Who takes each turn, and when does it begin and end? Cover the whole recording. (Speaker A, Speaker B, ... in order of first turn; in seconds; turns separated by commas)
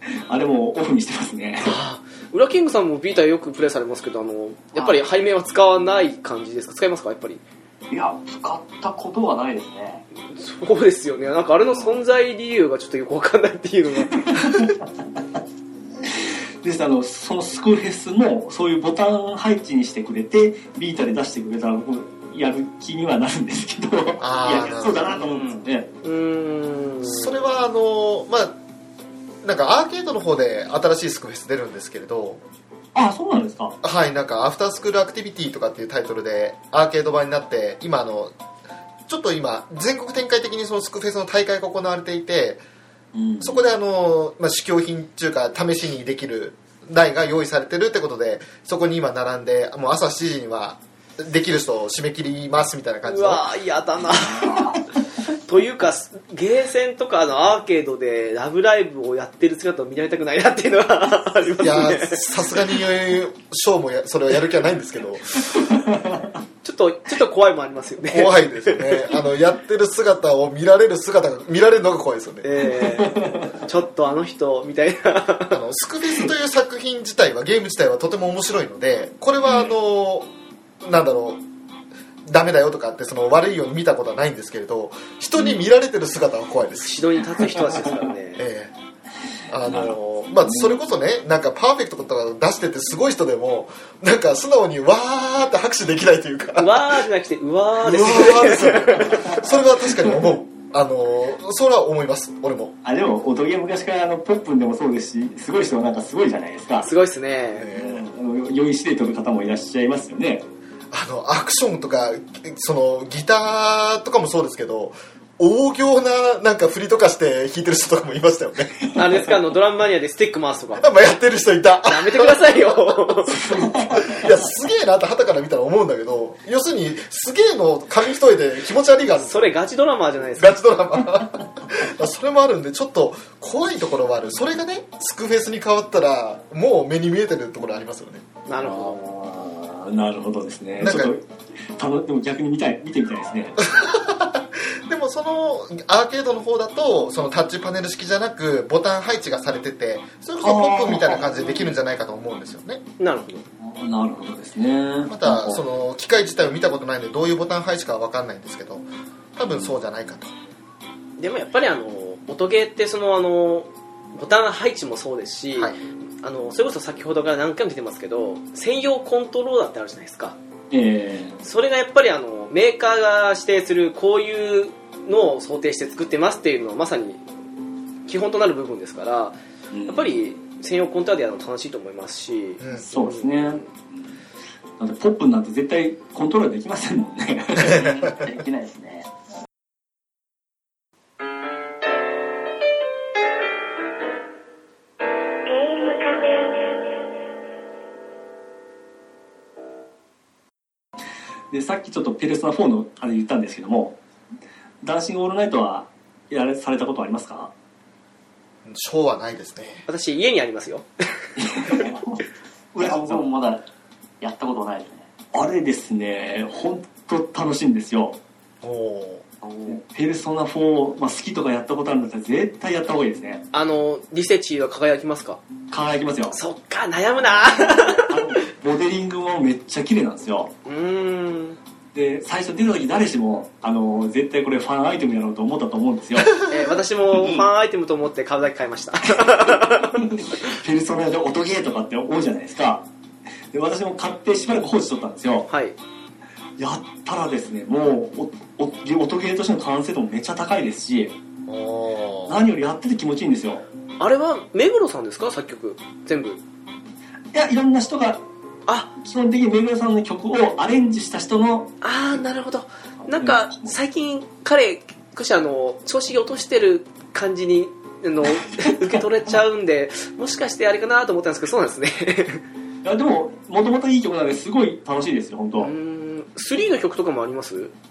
Speaker A: 0.3-1.8, Speaker B: 1.6-7.4, Speaker C: 4.7-5.0, Speaker C: 7.9-10.0, Speaker B: 10.3-14.3, Speaker A: 14.1-14.8, Speaker A: 16.0-25.9, Speaker D: 24.2-25.2, Speaker C: 25.2-25.6, Speaker B: 26.0-27.4, Speaker D: 27.0-28.6, Speaker D: 29.4-32.4, Speaker A: 32.9-33.7, Speaker D: 33.8-38.3, Speaker D: 39.1-42.6, Speaker A: 43.1-43.6, Speaker D: 43.4-53.5, Speaker B: 53.0-54.8, Speaker B: 55.3-62.3, Speaker D: 61.6-65.7, Speaker A: 65.6-66.3, Speaker B: 66.6-69.1, Speaker D: 68.1-72.6, Speaker B: 72.4-75.6, Speaker A: 72.8-73.6, Speaker D: 75.5-80.3, Speaker A: 79.5-79.7, Speaker D: 80.8-81.4, Speaker D: 82.2-87.0, Speaker B: 86.8-88.4, Speaker D: 88.4-88.7, Speaker D: 89.5-97.0, Speaker A: 89.6-90.8, Speaker B: 96.6-99.3, Speaker D: 97.8-102.7, Speaker A: 102.8-106.9, Speaker B: 106.8-107.7, Speaker D: 107.5-108.0, Speaker A: 107.7-110.4, Speaker D: 110.9-118.8, Speaker A: 118.8-119.2, Speaker B: 118.9-120.9, Speaker D: 120.8-123.0, Speaker B: 121.8-123.5, Speaker A: 123.3-124.5, Speaker D: 124.0-129.5, Speaker B: 129.2-130.6, Speaker D: 130.4-138.2, Speaker B: 138.5-139.0, Speaker A: 138.6-141.2, Speaker D: 140.8-141.1, Speaker A: 141.8-143.6, Speaker D: 143.6-152.8, Speaker A: 150.4-151.7, Speaker B: 153.0-153.4, Speaker A: 153.6-155.6, Speaker D: 155.1-160.3, Speaker B: 161.2-170.3, Speaker A: 170.7-171.4, Speaker B: 171.4-177.2, Speaker B: 178.1-183.6, Speaker A: 179.7-180.1, Speaker D: 182.6-182.8, Speaker A: 182.7-184.1, Speaker A: 184.8-187.9, Speaker C: 187.6-189.1, Speaker A: 201.5-204.0, Speaker A: 204.8-207.5, Speaker D: 208.6-209.8, Speaker B: 209.9-211.7, Speaker A: 211.4-213.3, Speaker C: 212.8-213.6, Speaker C: 214.2-215.1, Speaker A: 215.3-218.2, Speaker D: 218.6-219.2, Speaker C: 219.4-219.8, Speaker A: 219.7-223.4, Speaker B: 223.5-225.4, Speaker A: 225.7-226.3, Speaker B: 226.3-228.2, Speaker A: 227.8-230.5, Speaker B: 230.6-231.6, Speaker A: 231.9-236.4, Speaker B: 236.4-240.1, Speaker A: 237.1-237.4, Speaker A: 239.2-242.8, Speaker A: 243.5-245.5, Speaker B: 245.5-245.8, Speaker A: 246.6-251.1, Speaker D: 251.5-252.4, Speaker A: 252.3-253.6, Speaker B: 254.0-256.4, Speaker A: 257.3-258.2, Speaker B: 258.7-258.9, Speaker A: 259.0-261.7, Speaker B: 261.8-272.4, Speaker A: 263.1-263.7, Speaker A: 268.3-269.4, Speaker A: 272.8-275.7, Speaker B: 275.6-277.7